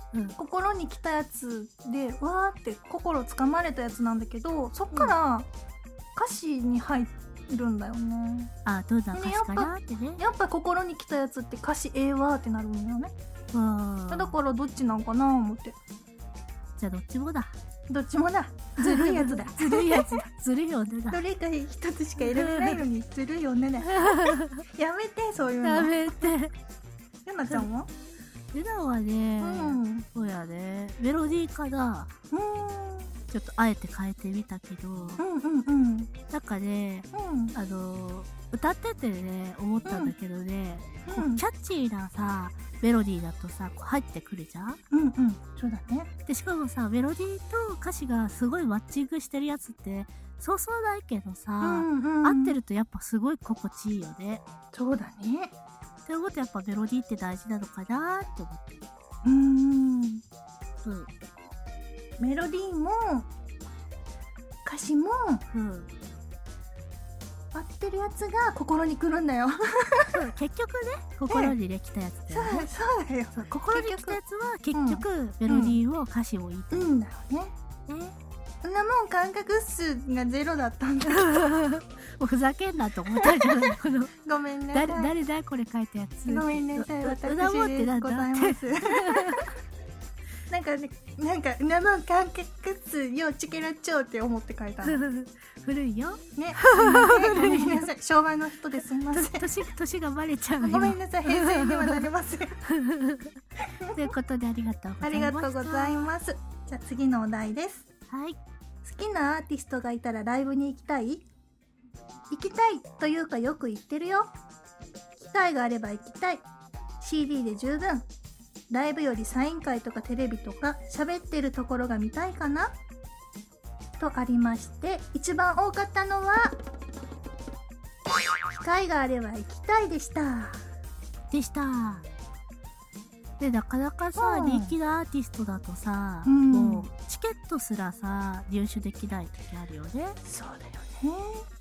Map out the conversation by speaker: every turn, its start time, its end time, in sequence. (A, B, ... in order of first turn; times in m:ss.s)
0:00.4-0:05.5 A
0:06.2-0:08.5 A
0:08.6-0:10.2 B
0:09.1-0:13.1 A
0:13.5-0:14.3 B
0:14.1-0:15.8 A
0:16.8-0:17.5 B
0:17.9-0:20.2 A
0:18.8-0:21.2 B
0:21.1-0:26.3 A
0:22.2-0:22.8 B
0:23.8-0:24.6 B
0:25.6-0:26.5 B
0:27.2-0:27.9 A
0:28.5-0:32.1 B
0:29.4-0:30.0 A
0:32.3-0:33.2 A
0:33.3-0:35.2 B
0:35.2-0:36.1 A
0:36.3-0:44.8 B
0:37.1-0:37.5 A
0:39.8-0:40.1 A
0:41.0-0:41.4 A
0:44.9-0:46.1 A
0:46.3-0:54.4 B
0:51.6-0:52.6 A
0:54.7-0:55.5 A
0:56.0-0:58.7 B
0:59.2-1:00.2 A
1:00.8-1:01.1 B
1:02.2-1:03.3 A
1:04.6-1:05.4 A
1:05.5-1:05.9 B
1:07.5-1:10.2 A
1:10.1-1:12.7 B
1:11.3-1:11.5 A
1:12.3-1:14.2 A
1:13.3-1:16.9 B
1:14.7-1:15.8 A
1:16.7-1:17.5 A
1:17.9-1:18.2 B
1:18.6-1:21.5 A
1:21.1-1:24.1 B
1:23.2-1:25.1 A
1:24.7-1:29.5 B
1:26.3-1:29.5 A
1:30.5-1:35.0 A
1:34.8-1:37.8 B
1:36.4-1:39.5 A
1:39.1-1:42.1 B
1:40.6-1:42.6 A
1:42.6-1:43.4 B
1:43.8-1:44.1 A
1:43.9-1:46.1 B
1:45.0-1:47.9 A
1:48.1-1:48.4 B
1:48.8-1:51.3 A
1:52.3-1:54.3 A
1:55.2-1:56.5 A
1:57.0-1:58.1 A
1:58.7-2:02.8 A
2:04.0-2:06.5 A
2:08.5-2:10.6 A
2:11.3-2:12.0 B
2:13.4-2:20.2 B
2:14.2-2:14.7 A
2:16.2-2:16.9 A
2:20.2-2:21.5 A